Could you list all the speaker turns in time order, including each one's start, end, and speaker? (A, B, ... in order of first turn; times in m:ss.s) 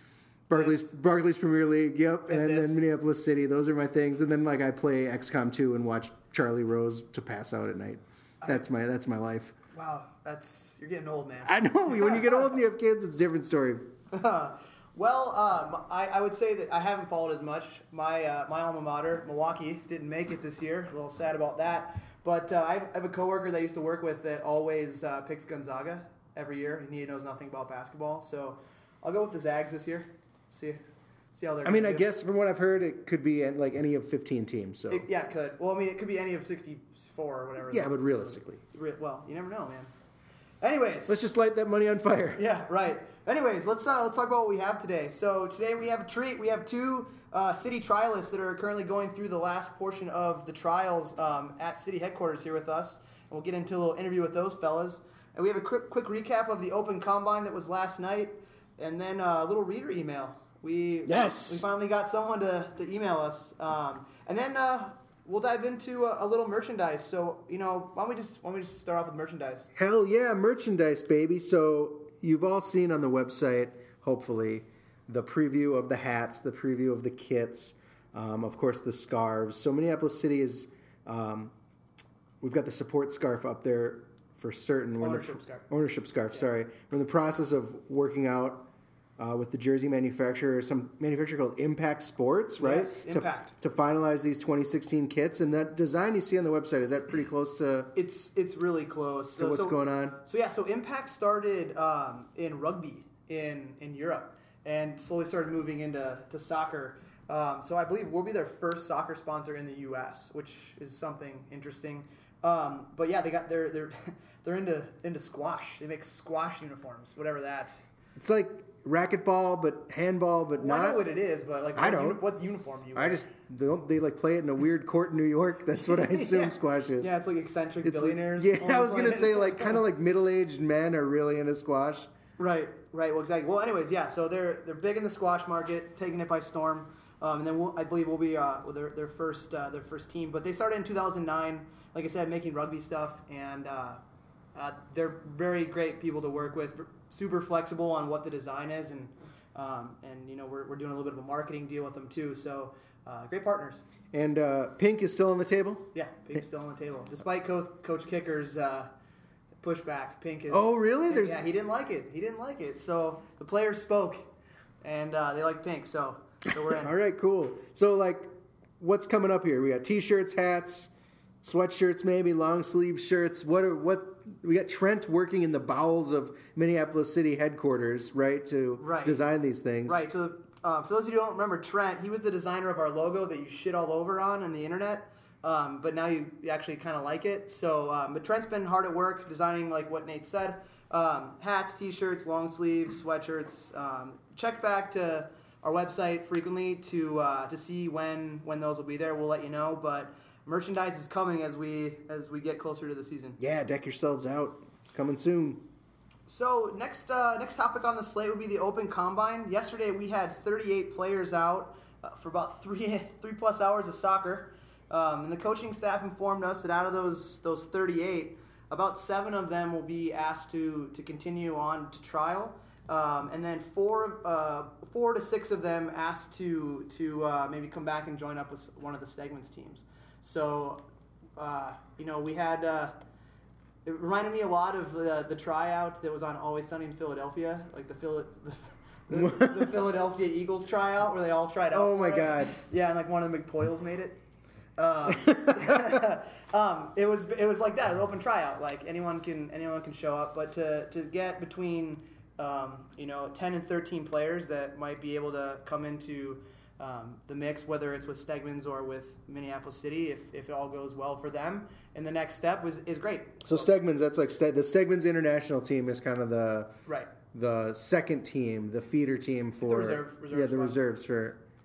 0:00.5-0:09.5 A
0:00.5-0:00.9 B
0:02.3-0:02.8 B
0:09.7-0:12.5 B
0:11.4-0:13.9 A
0:14.1-0:30.8 B
0:31.3-0:32.1 B
0:31.6-0:35.1 A
0:34.9-0:39.9 B
0:37.7-0:38.6 A
0:40.6-0:41.2 B
0:41.0-0:42.4 A
0:42.4-1:09.7 B
1:01.0-1:01.6 A
1:09.7-1:21.5 A
1:22.4-1:37.9 A
1:25.0-1:25.6 B
1:32.6-1:33.5 B
1:38.0-1:57.8 B
1:39.4-1:40.2 A
1:58.2-2:01.0 A
2:00.6-2:03.3 B
2:01.8-2:02.2 A
2:03.0-2:07.1 A
2:05.8-2:09.8 B
2:07.8-2:12.1 A
2:12.4-2:24.0 B
2:24.6-2:33.8 B
2:34.1-2:35.9 A
2:35.9-2:38.9 B
2:39.6-2:44.3 B
2:40.5-2:41.4 A
2:44.8-2:46.9 B
2:46.7-2:50.9 A
2:51.4-3:00.0 A
2:58.8-2:59.2 B
2:59.9-3:23.4 B
3:23.4-3:25.6 A
3:26.3-3:50.8 B
3:51.4-3:53.0 B
3:53.8-4:04.2 B
3:59.1-3:59.8 A
4:01.7-4:02.6 A
4:04.8-4:23.7 B
4:05.3-4:05.9 A
4:23.4-4:26.8 A
4:27.3-4:31.4 A
4:29.6-4:30.8 B